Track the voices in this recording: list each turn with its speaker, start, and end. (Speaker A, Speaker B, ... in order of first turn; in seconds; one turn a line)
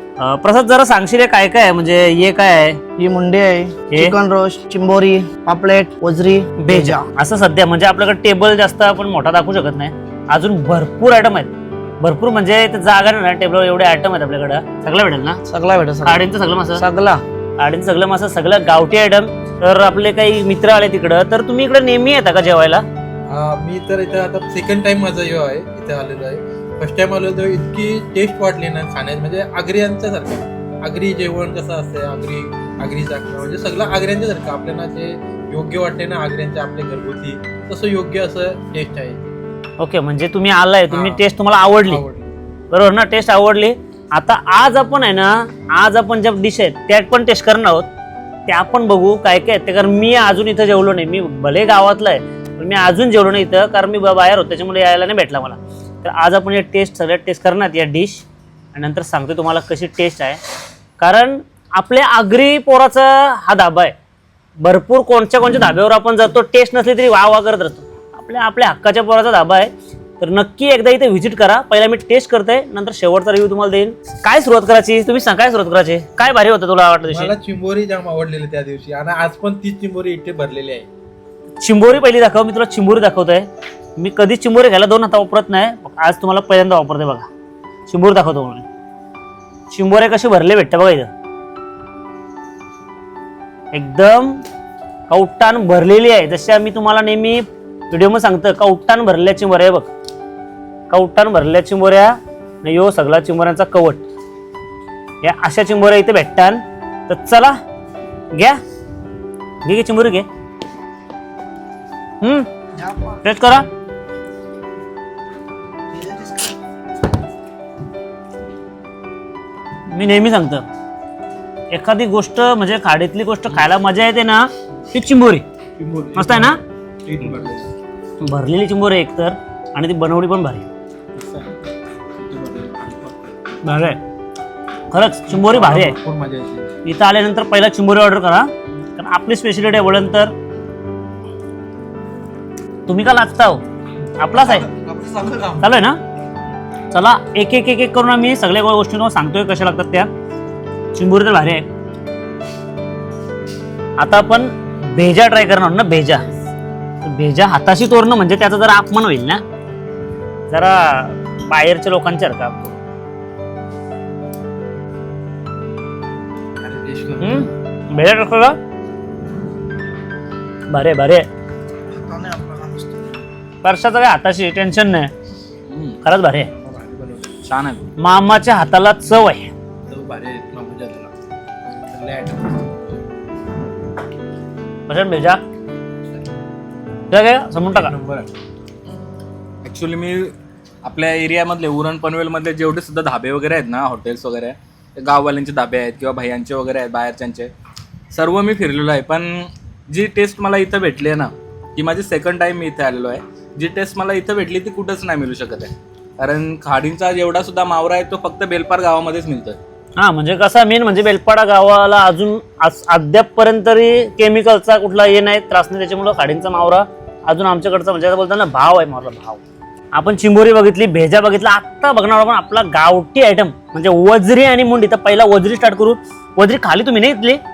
Speaker A: 0.2-2.8
Speaker B: 3.0-7.0
Speaker A: 6.6-15.4
Speaker B: 15.5-16.2
Speaker A: 16.0-16.8
Speaker B: 16.8-17.2
Speaker A: 17.6-22.9
Speaker C: 23.3-39.3
Speaker A: 39.8-42.0
Speaker C: 40.9-41.2
Speaker C: 41.8-42.4
Speaker A: 42.7-47.9
Speaker A: 48.5-60.4
Speaker A: 61.0-63.9
Speaker A: 64.6-77.3
Speaker C: 77.1-80.9
Speaker A: 81.6-87.3
Speaker A: 87.9-88.7
Speaker A: 89.7-91.1
Speaker A: 93.7-94.4
Speaker A: 95.1-99.9
Speaker A: 100.9-104.0
Speaker A: 105.2-107.6
Speaker A: 108.3-108.6
Speaker A: 109.6-110.3
Speaker A: 112.2-112.5
Speaker A: 113.2-113.7
Speaker B: 115.9-116.5
Speaker A: 119.9-120.6
Speaker A: 121.7-125.4
Speaker C: 125.8-127.7
Speaker A: 126.2-126.6
Speaker A: 128.2-130.7
Speaker D: 131.2-131.5
Speaker C: 132.2-133.6
Speaker A: 133.6-134.0
Speaker A: 134.9-136.0
Speaker C: 135.3-136.7
Speaker A: 136.8-140.3
Speaker A: 142.9-143.6
Speaker A: 144.2-144.7
Speaker C: 144.8-145.6
Speaker A: 145.6-146.0
Speaker A: 146.9-150.1
Speaker A: 150.9-151.7
Speaker A: 154.0-156.3
Speaker A: 157.1-159.4
Speaker A: 160.5-162.8
Speaker C: 166.6-167.4
Speaker A: 167.2-168.6
Speaker A: 170.7-171.3
Speaker B: 171.9-173.1
Speaker A: 173.6-175.1
Speaker D: 175.7-176.0
Speaker A: 176.0-176.5
Speaker C: 176.6-177.4
Speaker D: 177.4-177.9
Speaker A: 178.0-179.5
Speaker D: 179.9-181.1
Speaker C: 180.6-181.0
Speaker C: 181.9-183.0
Speaker A: 184.9-185.4
Speaker A: 187.1-187.9
Speaker C: 187.8-188.3
Speaker D: 187.9-188.2
Speaker D: 189.6-197.5
Speaker D: 198.1-209.6
Speaker A: 210.0-219.4
Speaker A: 219.9-227.4